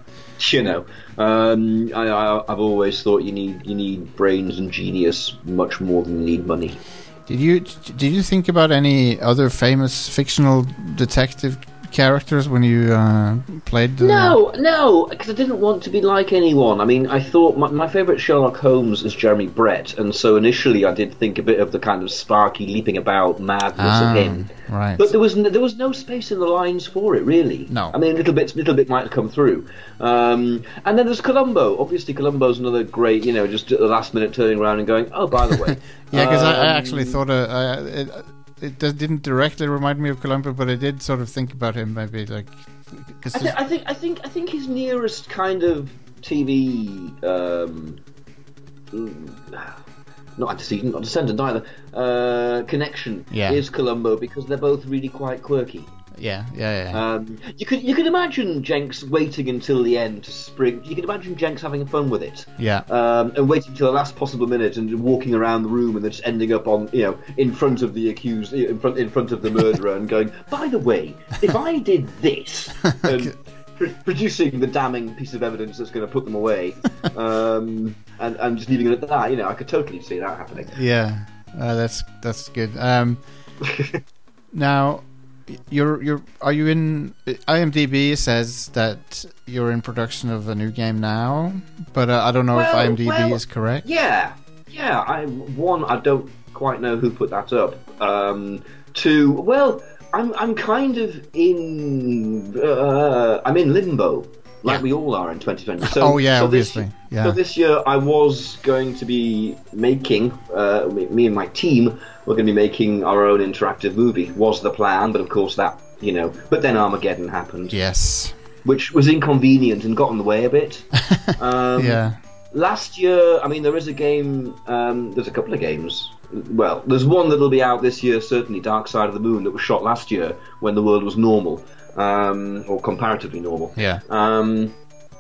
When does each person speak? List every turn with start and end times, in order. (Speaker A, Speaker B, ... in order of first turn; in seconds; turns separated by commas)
Speaker A: 0.4-6.8, Speaker B: 7.3-14.4, Speaker A: 14.0-37.2, Speaker B: 23.8-25.1, Speaker B: 27.7-28.0, Speaker B: 35.7-43.6, Speaker A: 43.3-48.0, Speaker A: 48.9-49.8, Speaker A: 50.4-56.0, Speaker B: 53.3-53.6, Speaker B: 56.1-57.0, Speaker A: 56.9-80.8, Speaker B: 62.6-62.9, Speaker B: 73.0-73.3, Speaker B: 80.7-83.2, Speaker A: 83.6-84.0, Speaker B: 84.5-93.9, Speaker A: 92.5-117.8, Speaker B: 105.8-107.4, Speaker B: 117.7-118.4, Speaker A: 118.6-134.8, Speaker B: 121.8-122.2, Speaker B: 133.8-134.0